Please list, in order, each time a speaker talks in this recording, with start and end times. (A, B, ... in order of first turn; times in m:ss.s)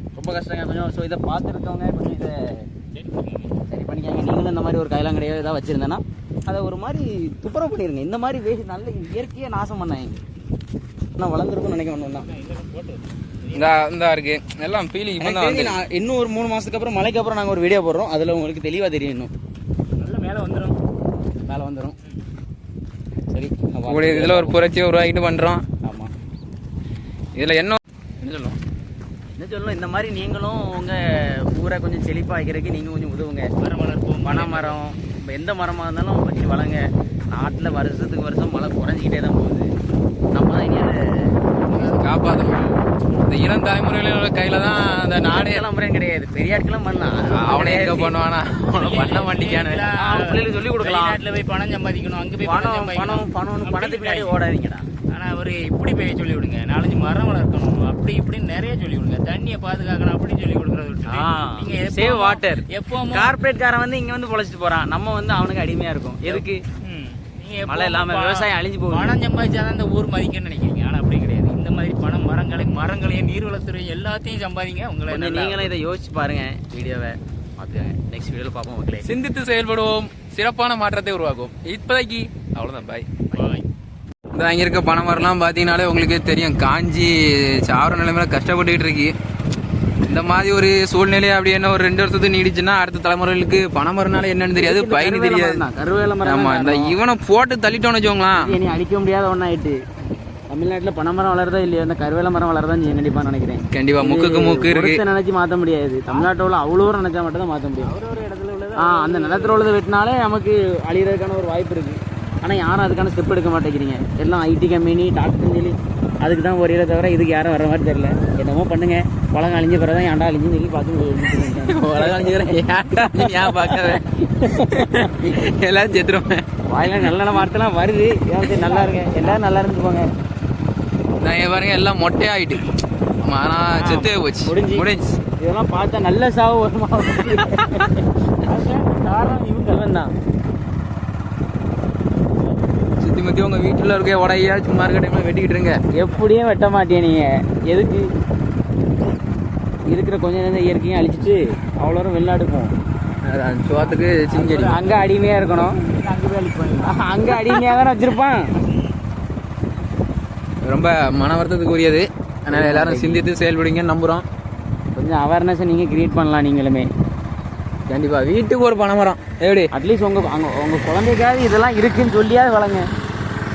0:00.2-0:02.7 A
0:02.9-0:03.6 B
0:03.7-0:10.2 A
0:11.2-0:12.3 A
0:12.1-0:13.8 B
0:13.5-0:15.8 C
0:15.2-0:19.3 A
0:20.0-0:20.8 B
0:21.5-0:22.0 A
0:23.3-0:24.6 A
0:23.9-0:25.6 C
0:25.8-0:26.1 A
0:27.4-0:28.6 C
0:29.4-0:33.5 A
0:33.6-0:34.8 B
0:34.2-0:39.7 A
0:40.3-0:41.4 A
0:41.6-0:42.7 B
0:41.8-0:42.6 C
0:43.2-0:45.6 C
0:45.2-0:48.2 A
0:47.3-0:49.8 C
0:48.8-0:54.4 B
0:50.0-0:51.2 A
0:52.4-0:54.9 A
0:55.0-1:03.4 B
1:01.0-1:06.6 A
1:06.2-1:15.7 B
1:07.6-1:09.2 A
1:15.1-1:19.1 A
1:19.0-1:23.1 C
1:23.3-1:23.6 B
1:24.3-1:29.1 C
1:30.0-1:35.6 C
1:34.6-1:37.0 A
1:36.2-1:38.6 C
1:38.3-1:39.8 A
1:40.0-1:40.4 B
1:40.5-1:48.0 A
1:43.7-1:45.0 C
1:47.8-1:49.7 B
1:48.8-2:05.3 A
1:52.2-1:52.5 B
2:01.6-2:07.3 C
2:06.7-2:10.1 A
2:08.4-2:09.4 B
2:11.2-2:12.6 C
2:13.2-2:15.2 C
2:13.9-2:14.9 A
2:15.4-2:18.1 A
2:18.4-2:19.9 B
2:19.6-2:20.1 A
2:23.0-2:25.8 C
2:25.9-2:28.1 A
2:29.9-2:32.7 A
2:33.3-2:34.8 C
2:33.9-2:35.1 B
2:34.5-2:35.8 A
2:35.9-2:37.7 B
2:36.8-2:38.6 A
2:40.7-2:44.2 C
2:42.5-2:43.2 A
2:45.0-2:46.9 A
2:47.9-2:49.7 C
2:49.7-2:52.9 A